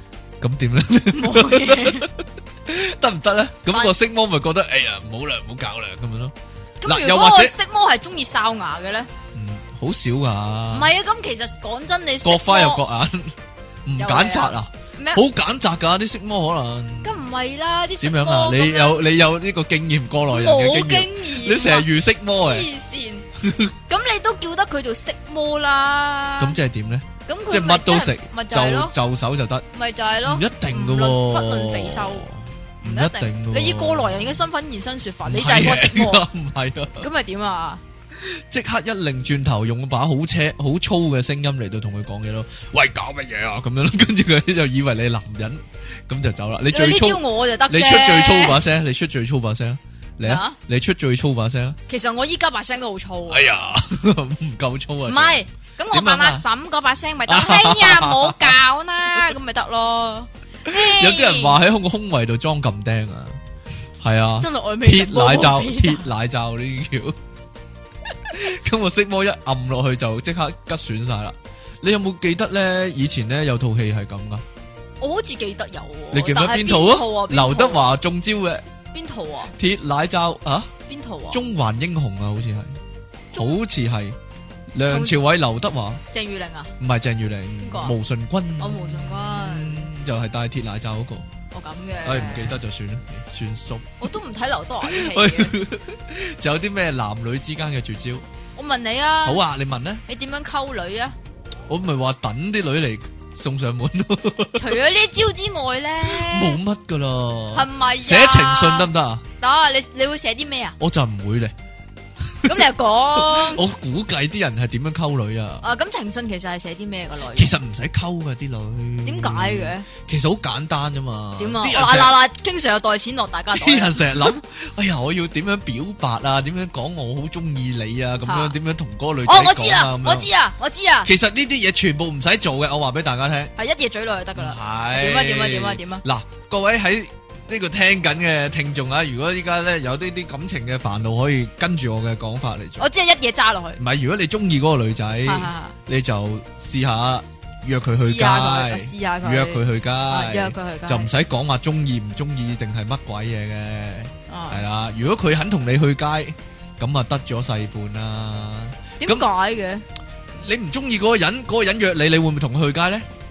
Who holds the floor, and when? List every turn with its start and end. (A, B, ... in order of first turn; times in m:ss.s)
0:00.4-0:07.5 A
0:01.1-0:02.1 B
0:06.8-0:09.1 B
0:09.3-0:10.9 A
0:10.7-0:12.8 B
0:12.2-0:17.2 A
0:14.0-0:15.2 B
0:17.0-0:19.0 B
0:18.0-0:22.7 A
0:20.3-0:23.2 B
0:23.4-0:23.7 A
0:23.9-0:26.6 B
0:26.4-0:29.6 A
0:27.2-0:28.9 B
0:29.7-0:32.3 B
0:30.2-0:34.4 A
0:32.8-0:36.2 B
0:35.2-0:37.1 A
0:37.0-0:37.8 B
0:38.1-0:51.8 A
0:46.7-0:48.6 B
0:50.2-0:50.6 B
0:51.9-0:53.5 B
0:53.3-0:56.4 A
0:55.0-1:01.6 B
0:57.2-0:58.6 A
1:00.6-1:03.4 A
1:04.0-1:07.2 A
1:04.4-1:06.1 B
1:08.3-1:14.4 A
1:15.0-1:17.9 B
1:16.1-1:18.6 A
1:18.9-1:19.5 B
1:19.6-1:20.7 A
1:20.9-1:21.4 B
1:21.3-1:22.8 A
1:23.3-1:23.6 B
1:23.3-1:24.2 A
1:24.7-1:26.0 A
1:24.8-1:25.2 B
1:26.1-1:26.7 B
1:26.8-1:31.2 A
1:27.6-1:28.0 B
1:28.6-1:29.9 B
1:31.5-1:32.6 B
1:32.0-1:34.0 A
1:34.0-1:35.5 B
1:34.8-1:38.2 A
1:38.6-1:39.4 B
1:39.2-1:40.0 A
1:40.1-1:41.2 B
1:41.7-1:44.7 A
1:44.6-1:46.6 B
1:46.0-1:49.2 A
1:47.5-1:48.9 B
1:49.4-1:50.8 B
1:50.8-1:51.5 A
1:52.2-1:52.6 A
1:52.4-1:53.6 B
1:53.2-1:55.6 A
1:55.6-1:57.6 B
1:57.3-2:02.2 A
1:59.0-1:59.8 B
2:01.4-2:04.3 B
2:03.5-2:10.3 A
2:08.2-2:08.6 B
2:09.2-2:11.1 B
2:11.0-2:13.5 A
2:13.6-2:16.0 B
2:14.4-2:22.9 A
2:22.8-2:23.8 B
2:23.8-2:39.3 A
2:25.2-2:25.7 B
2:27.9-2:31.1 B
2:34.3-2:34.6 B
2:39.0-2:39.8 B
2:40.4-2:43.0 A